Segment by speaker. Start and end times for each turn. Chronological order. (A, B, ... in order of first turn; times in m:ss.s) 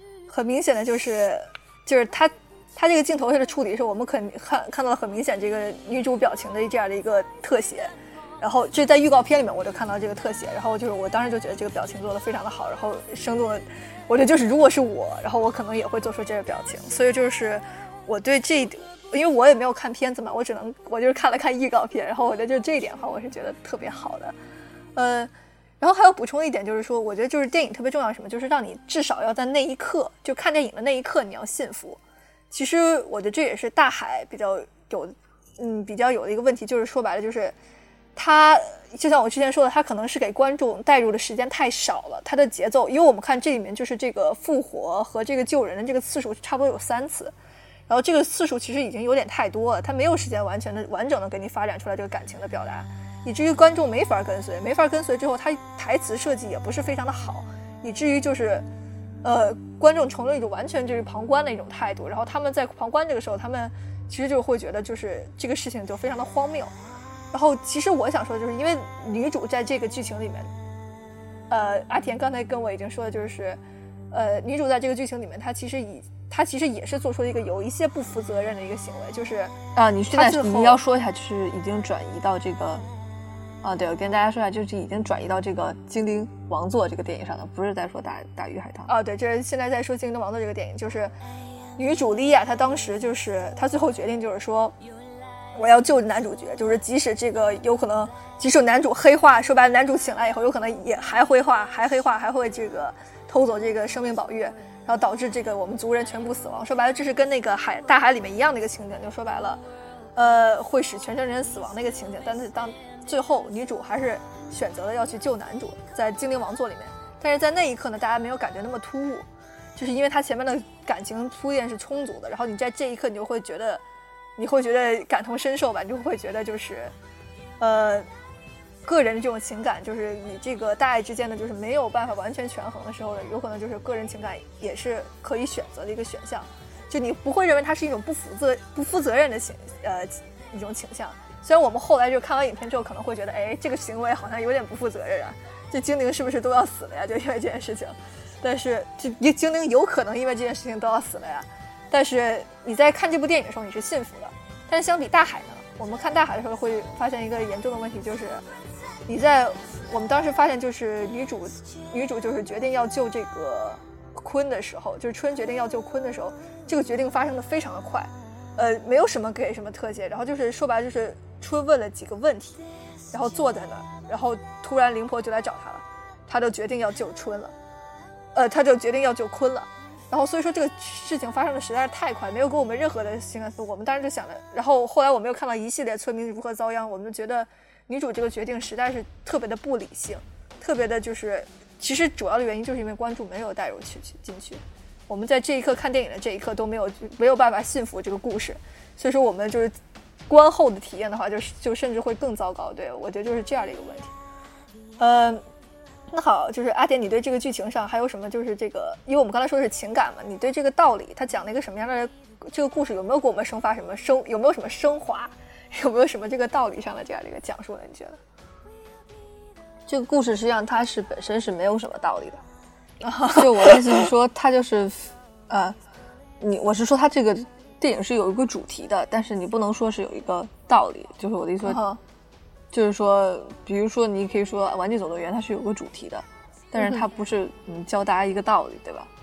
0:00.3-0:24.4 A
0:25.0-0:32.0 A
0:32.5-0:37.6 A
0:38.2-0:47.3 A
0:47.9-0:58.7 A
0:59.2-1:06.7 A
1:07.3-1:10.5 A
1:11.5-1:13.6 A
1:14.1-1:19.6 A
1:19.8-1:22.8 B
1:20.1-1:20.8 A
1:23.6-1:28.9 B
1:28.9-1:31.1 A
1:31.8-1:34.8 A
1:35.6-1:49.6 A
1:50.2-2:03.8 A
2:04.4-2:06.9 A
2:07.6-2:08.1 A
2:08.8-2:38.4 A
2:39.1-2:52.6 A
2:53.1-2:57.5 A
2:58.3-3:19.7 A
3:20.3-3:24.1 A
3:25.0-3:25.4 A
3:26.1-3:38.2 A
3:39.9-3:42.4 B
3:43.0-3:44.1 A
3:43.4-3:45.8 B
3:46.4-3:51.8 B
3:51.6-3:52.0 A
3:52.7-3:59.1 B
3:56.8-3:57.0 A